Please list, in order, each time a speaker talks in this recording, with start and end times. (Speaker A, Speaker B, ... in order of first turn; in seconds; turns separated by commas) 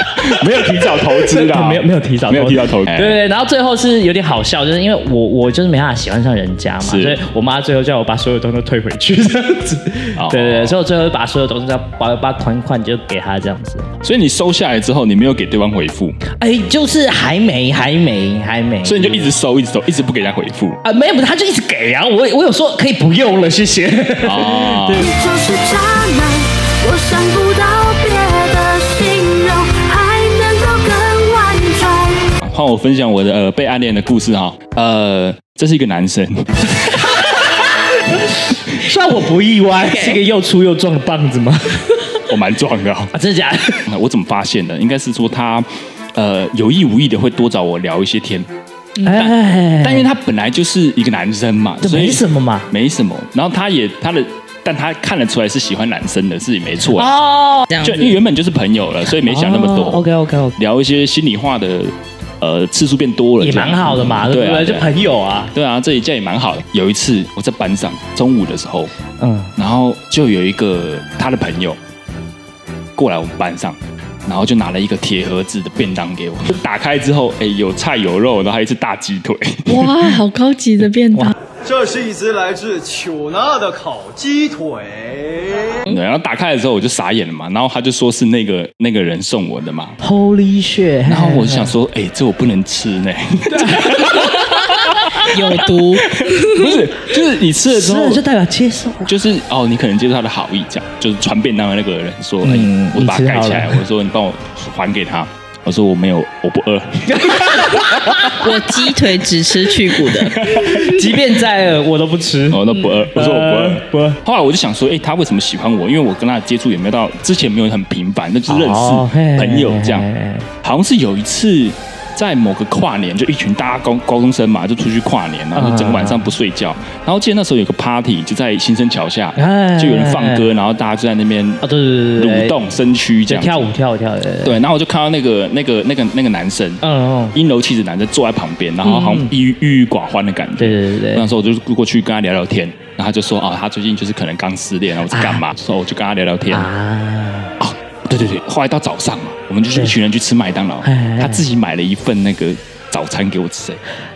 Speaker A: 0.2-3.2, Speaker B: 0.8-13.9, Speaker A: 6.8-7.2, Speaker A: 10.2-10.8, Speaker A: 14.0-16.1, Speaker B: 16.4-19.3, Speaker A: 18.8-20.8, Speaker B: 20.8-25.1, Speaker A: 24.2-25.1, Speaker C: 24.9-32.3, Speaker A: 32.4-37.1, Speaker B: 38.7-42.0, Speaker D: 39.8-40.2, Speaker A: 42.3-43.1, Speaker B: 43.1-43.8, Speaker A: 43.8-48.5, Speaker B: 49.0-50.1, Speaker A: 49.1-57.1, Speaker B: 51.8-52.7, Speaker B: 56.9-57.7, Speaker D: 57.7-58.1, Speaker A: 57.8-64.9, Speaker B: 59.2-60.5, Speaker B: 63.4-65.5, Speaker A: 65.5-68.9, Speaker B: 69.2-69.5, Speaker A: 69.6-71.8, Speaker A: 72.9-80.1, Speaker D: 79.7-81.3, Speaker E: 81.6-85.8, Speaker A: 85.9-90.0, Speaker B: 90.0-91.7, Speaker A: 91.0-98.2, Speaker B: 93.5-96.2, Speaker D: 95.3-96.3, Speaker B: 97.7-99.2, Speaker A: 99.0-108.3, Speaker B: 102.4-103.8, Speaker B: 107.1-108.4, Speaker D: 108.3-110.4, Speaker A: 110.3-111.0, Speaker B: 110.4-114.2, Speaker A: 112.5-120.1, Speaker B: 118.5-120.5, Speaker A: 120.6-131.6, Speaker B: 125.5-126.3, Speaker B: 129.4-130.5, Speaker B: 131.6-132.5, Speaker A: 132.2-133.7, Speaker B: 133.3-134.6, Speaker A: 134.4-136.8, Speaker B: 136.8-137.3, Speaker A: 137.3-146.7, Speaker B: 138.8-139.3, Speaker B: 140.6-141.3, Speaker B: 145.1-145.4, Speaker B: 146.5-147.5, Speaker A: 147.6-153.8, Speaker B: 149.7-150.0, Speaker B: 150.8-151.4